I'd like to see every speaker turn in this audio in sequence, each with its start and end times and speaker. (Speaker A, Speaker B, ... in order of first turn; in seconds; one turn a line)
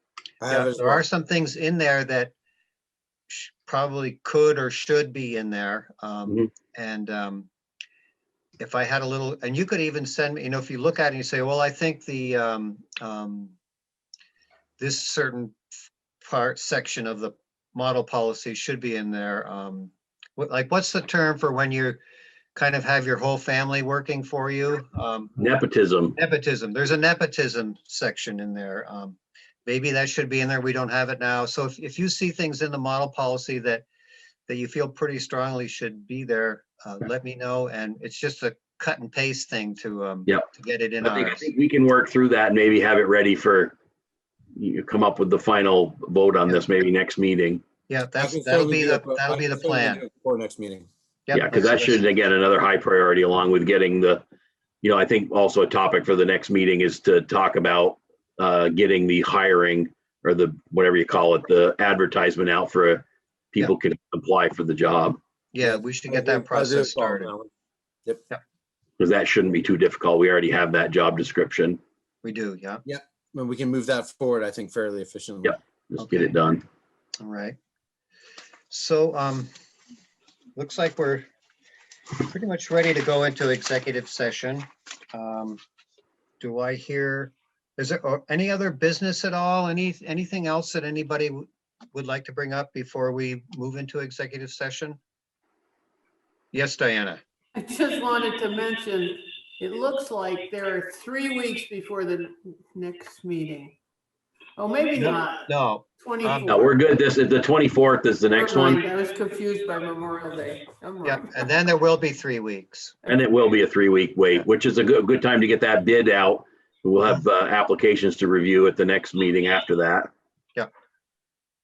Speaker A: 0.4-1.0
Speaker B: 0.5-2.3
Speaker B: 3.3-7.5
Speaker B: 8.6-13.6
Speaker B: 14.8-15.6
Speaker B: 16.2-22.0
Speaker B: 22.5-25.3
Speaker C: 25.4-26.1
Speaker B: 26.1-33.8
Speaker B: 34.5-41.4
Speaker C: 41.0-43.7
Speaker C: 44.5-47.6
Speaker B: 47.9-50.0
Speaker A: 48.2-50.9
Speaker B: 51.3-52.0
Speaker C: 51.3-54.2
Speaker C: 54.8-65.2
Speaker B: 65.5-67.3
Speaker A: 65.6-67.5
Speaker C: 69.0-71.8
Speaker B: 72.2-72.8
Speaker A: 72.8-75.6
Speaker C: 75.4-76.6
Speaker B: 76.0-76.4
Speaker B: 77.2-77.5
Speaker B: 78.7-79.5
Speaker B: 80.5-81.2
Speaker B: 82.2-85.6
Speaker B: 86.4-95.0
Speaker B: 96.5-97.2
Speaker D: 97.5-103.8
Speaker D: 104.5-106.8
Speaker B: 104.9-106.6
Speaker C: 106.5-108.8
Speaker D: 108.3-111.3
Speaker B: 111.0-113.0
Speaker C: 113.0-120.1